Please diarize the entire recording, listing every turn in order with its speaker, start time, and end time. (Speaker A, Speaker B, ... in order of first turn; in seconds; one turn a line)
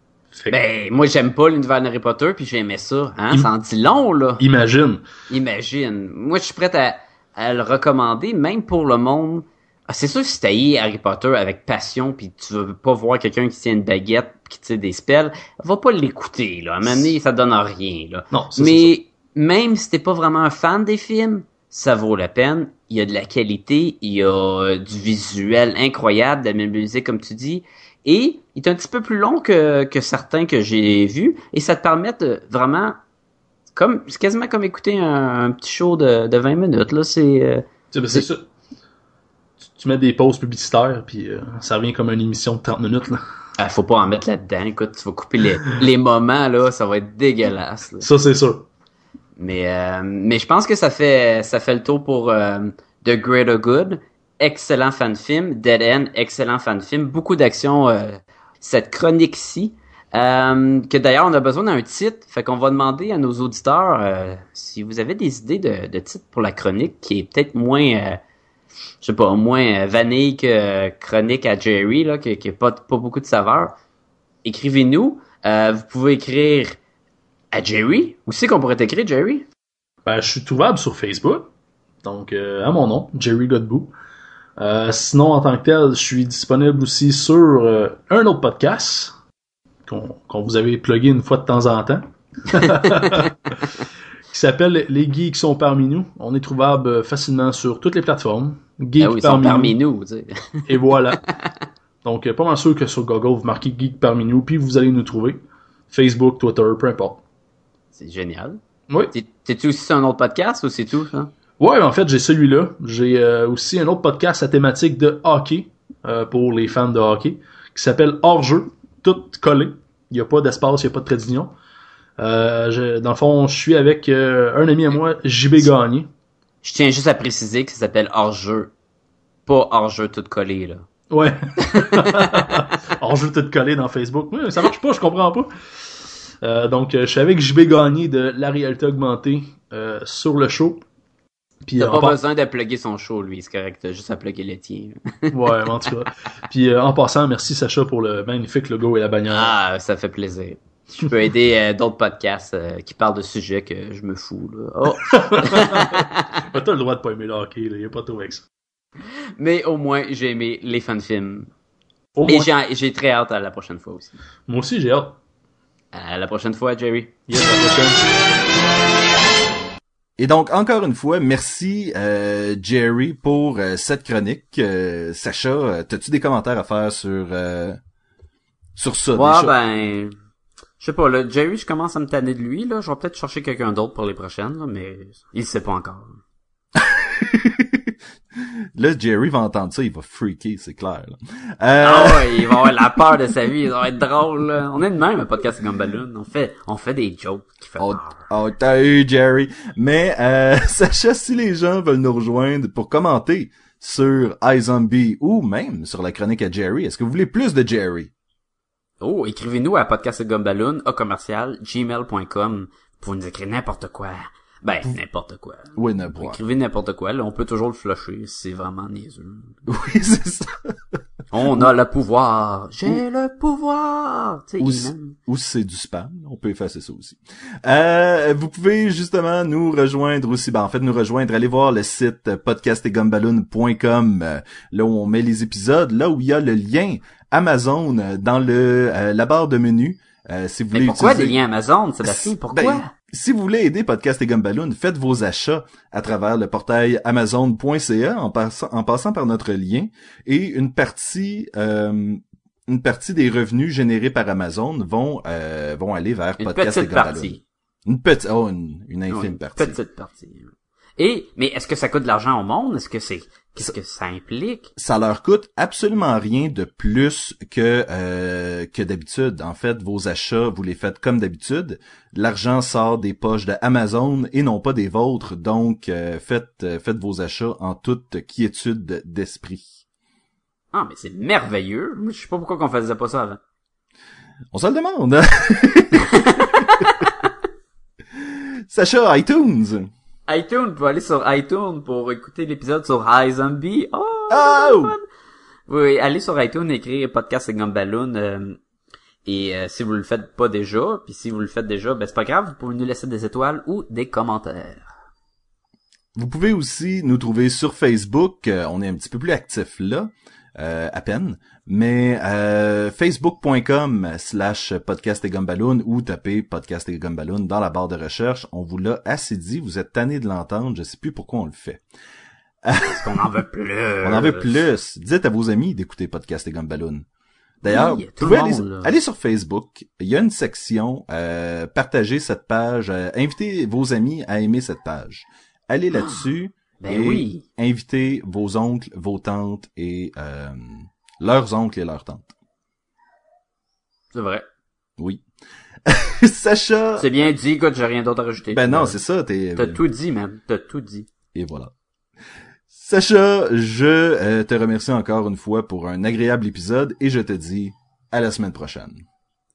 Speaker A: 0.3-0.6
Speaker B: 0.5-4.4
Speaker A: 4.4-5.0
Speaker B: 5.3-33.0
Speaker A: 16.8-17.1
Speaker A: 18.3-18.9
Speaker B: 33.8-38.3
Speaker A: 37.9-38.5
Speaker A: 39.8-43.2
Speaker B: 43.6-48.1
Speaker A: 48.0-48.7
Speaker B: 49.4-68.2
Speaker B: 69.0-73.8
Speaker B: 74.4-76.8
Speaker B: 77.5-79.5
Speaker A: 80.1-81.5
Speaker A: 82.0-83.9
Speaker A: 84.6-89.2
Speaker A: 89.9-93.3
Speaker B: 92.6-93.3
Speaker A: 94.3-99.8
Speaker B: 99.0-101.5
Speaker A: 100.7-101.2
Speaker A: 102.0-107.2
Speaker B: 108.0-108.6
Speaker A: 108.9-109.1
Speaker B: 109.1-111.3
Speaker A: 111.6-121.5
Speaker A: 122.2-126.1
Speaker B: 126.6-128.7
Speaker B: 129.5-130.9
Speaker A: 131.1-135.5
Speaker B: 131.6-132.7
Speaker A: 136.4-140.8
Speaker A: 141.7-142.2
Speaker B: 141.8-145.7
Speaker A: 145.3-149.6
Speaker B: 149.3-156.4
Speaker A: 155.0-158.5
Speaker B: 159.4-161.5
Speaker A: 162.2-162.5
Speaker B: 162.2-164.2
Speaker A: 164.5-165.2
Speaker B: 165.9-167.2
Speaker A: 167.3-168.0
Speaker C: 170.2-177.8
Speaker C: 178.8-179.6
Speaker B: 179.1-180.1
Speaker B: 180.8-186.2
Speaker C: 186.8-187.9
Speaker C: 188.8-192.8
Speaker B: 191.8-198.3
Speaker C: 197.8-208.1
Speaker B: 209.0-219.7
Speaker C: 215.8-216.4
Speaker C: 219.7-220.8
Speaker B: 221.3-225.2
Speaker C: 224.6-241.4
Speaker B: 240.7-242.9
Speaker C: 242.0-259.8
Speaker B: 256.4-257.4
Speaker B: 259.1-264.7
Speaker C: 264.8-279.8
Speaker B: 280.7-283.4
Speaker C: 284.5-286.7
Speaker B: 286.2-287.1
Speaker C: 288.3-289.9
Speaker B: 290.3-295.1
Speaker C: 294.3-294.9
Speaker B: 295.7-298.6
Speaker B: 299.2-304.9
Speaker C: 306.2-321.8
Speaker C: 322.6-323.1
Speaker B: 322.8-324.6
Speaker C: 324.0-327.1
Speaker C: 327.6-342.3
Speaker B: 327.7-328.9
Speaker B: 335.9-336.2
Speaker B: 336.8-337.4
Speaker B: 344.1-344.4
Speaker C: 345.9-347.1
Speaker B: 347.0-349.0
Speaker C: 348.5-349.8
Speaker B: 349.6-351.1
Speaker C: 351.3-351.7
Speaker C: 352.7-359.0